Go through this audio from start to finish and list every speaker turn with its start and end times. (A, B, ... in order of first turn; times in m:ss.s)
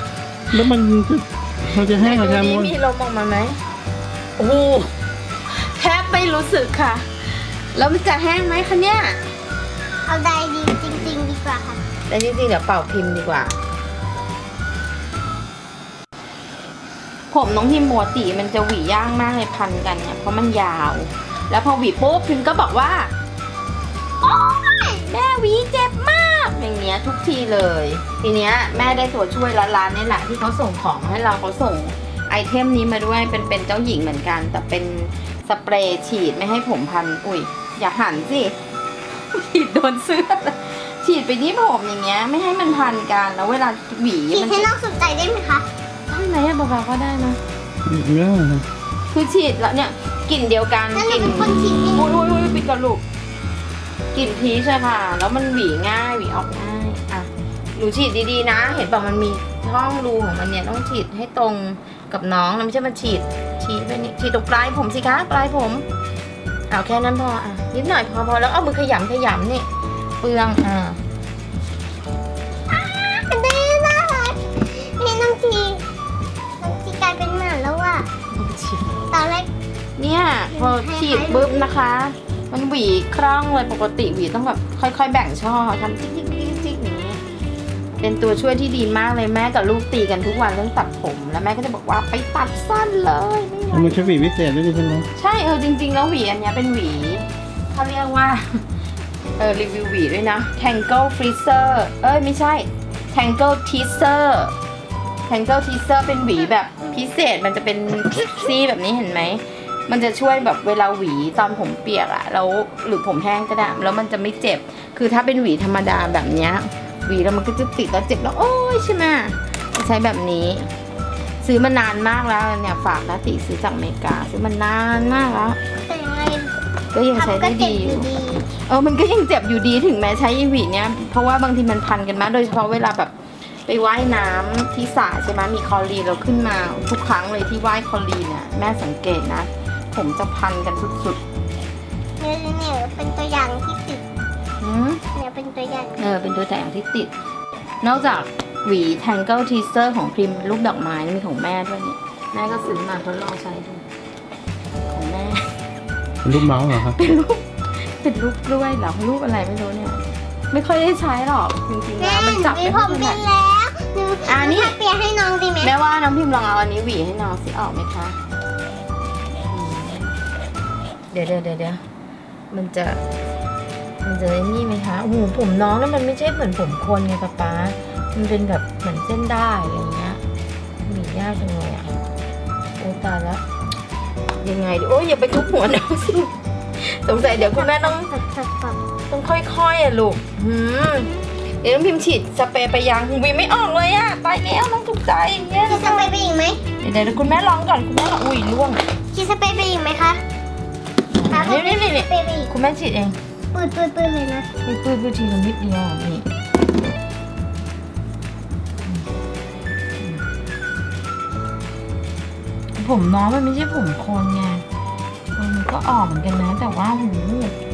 0:00.5-0:02.7 A
0:01.7-0:03.6 B
0:04.4-0:04.9 B
0:05.5-0:09.2 B
0:10.1-0:11.8 C
0:12.0-0:13.5 B
0:17.3-0:23.1 B
0:24.2-0:24.8 C
0:24.4-0:38.6 B
0:39.1-0:44.7 B
0:44.3-0:45.7 C
0:46.1-0:47.4 B
0:47.9-0:48.6 A
0:49.1-0:53.0 B
0:50.9-0:52.1 C
0:54.1-1:05.8 B
1:06.7-1:09.7 B
1:10.2-1:11.0 B
1:12.7-1:15.8 C
1:16.6-1:18.1 C
1:18.3-1:19.0 B
1:19.1-1:19.5 C
1:20.0-1:27.2 B
1:20.5-1:21.7 C
1:28.0-1:34.1 B
1:33.7-1:35.1 A
1:35.2-1:38.6 B
1:39.4-1:44.5 B
1:45.3-2:00.7 B
2:01.4-2:05.6 B
2:05.9-2:06.5 C
2:06.9-2:13.1 B
2:07.1-2:08.5 C
2:13.6-2:21.2 B
2:22.2-2:24.0 C
2:24.6-2:25.0 B
2:25.1-2:26.1 C
2:26.0-2:27.1 B
2:27.8-2:33.8 B
2:34.8-2:35.5 B
2:36.2-2:36.9 A
2:36.3-2:43.2 B
2:42.0-2:45.7 C
2:44.2-2:44.8 B
2:45.6-2:48.2 B
2:49.5-2:50.1 B
2:51.1-2:51.8 B
2:52.5-2:53.0 B
2:54.0-3:00.2 B
3:00.8-3:01.9 B
3:02.8-3:03.4 B
3:04.4-3:08.1 B
3:07.2-3:08.8 C
3:09.1-3:16.1 B
3:15.7-3:16.6 C
3:16.8-3:18.8 B
3:19.1-3:20.2 C
3:21.1-3:23.2 B
3:21.3-3:22.5 C
3:23.5-3:24.5 C
3:24.6-3:26.3 B
3:32.8-3:34.6 B
3:35.3-3:37.6 B